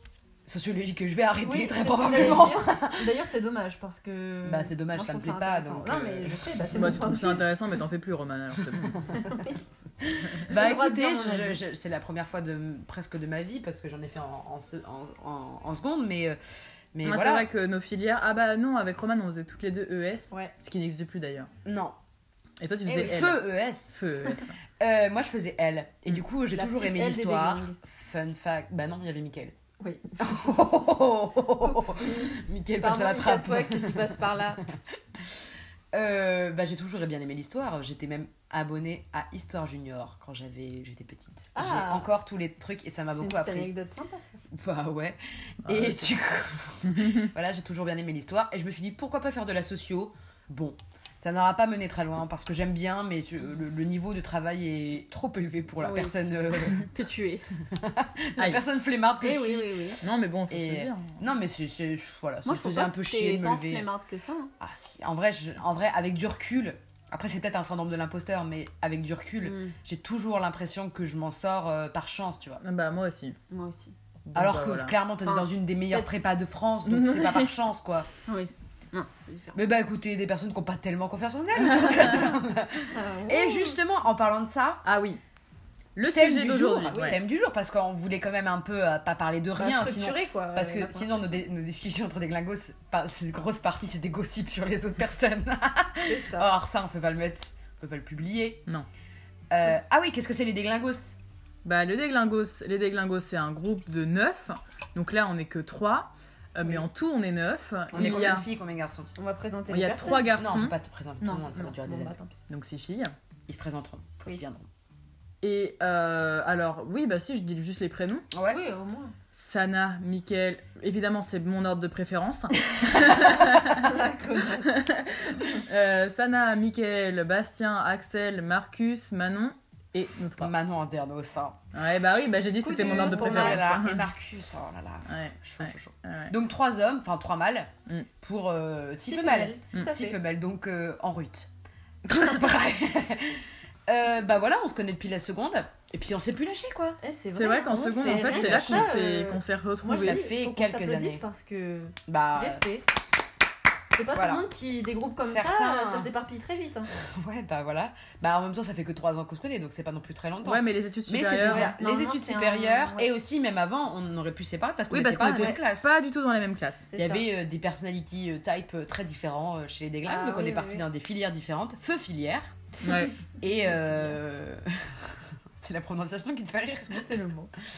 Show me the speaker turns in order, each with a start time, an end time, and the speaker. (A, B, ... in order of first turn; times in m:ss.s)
0:00.5-0:03.1 A
0:01.4-0:07.4 B
0:04.4-0:07.2 A
0:06.7-0:09.0 C
0:08.6-0:16.4 A
0:09.1-0:09.6 B
0:10.5-0:11.6 B
0:16.9-0:17.5 A
0:17.0-0:21.5 C
0:21.6-0:22.0 A
0:22.6-0:24.6 C
0:22.9-0:24.0 A
0:24.8-0:29.5 A
0:26.5-0:27.8 B
0:29.8-0:30.2 B
0:30.2-0:34.8 A
0:31.6-0:34.6 B
0:35.9-0:43.7 A
0:41.6-0:42.1 B
0:43.1-0:44.4 B
0:44.5-0:56.9 A
0:45.6-0:46.1 C
0:46.9-0:47.3 C
0:55.8-0:57.4 B
0:57.7-0:59.9 A
0:59.2-1:00.0 B
1:00.0-1:01.2 C
1:00.5-1:03.9 A
1:02.4-1:04.5 B
1:04.6-1:12.6 A
1:09.4-1:09.8 B
1:12.6-1:13.4 C
1:13.5-1:14.0 B
1:14.3-1:15.0 C
1:14.4-1:18.1 A
1:15.2-1:16.1 B
1:16.9-1:17.5 C
1:18.3-1:19.6 B
1:19.5-1:24.8 A
1:22.9-1:23.8 B
1:24.8-1:25.2 C
1:26.0-1:27.2 C
1:26.1-1:38.6 A
1:26.9-1:27.2 B
1:29.6-1:31.4 B
1:36.0-1:36.5 B
1:39.5-1:41.2 A
1:41.6-1:48.5 C
1:47.9-1:49.1 A
1:49.2-1:50.3 B
1:49.7-1:50.8 C
1:50.3-1:52.1 A
1:51.2-1:52.4 B
1:52.5-1:53.1 C
1:53.5-1:54.7 A
1:55.4-1:58.3 C
1:58.3-1:58.6 A
1:58.5-1:59.2 B
1:59.3-2:04.0 C
2:03.0-2:04.8 B
2:04.6-2:10.5 C
2:10.4-2:11.6 A
2:11.7-2:14.1 C
2:12.6-2:13.9 B
2:12.8-2:21.5 A
2:15.1-2:16.4 C
2:19.1-2:20.2 B
2:22.0-2:27.0 A
2:27.0-2:32.9 B
2:27.3-2:30.2 C
2:27.7-2:29.0 A
2:30.0-2:31.2 A
2:32.1-2:32.6 A
2:34.0-2:36.9 B
2:34.2-2:34.4 A
2:35.2-2:36.1 A
2:36.9-2:45.9 A
2:40.4-2:41.7 C
2:41.4-2:43.1 B
2:44.9-2:46.9 C
2:45.2-2:45.6 B
2:46.9-2:47.3 B
2:47.0-2:52.6 A
2:50.1-2:50.8 B
2:52.8-2:53.2 C
2:53.4-2:57.1 A
2:56.9-2:57.5 B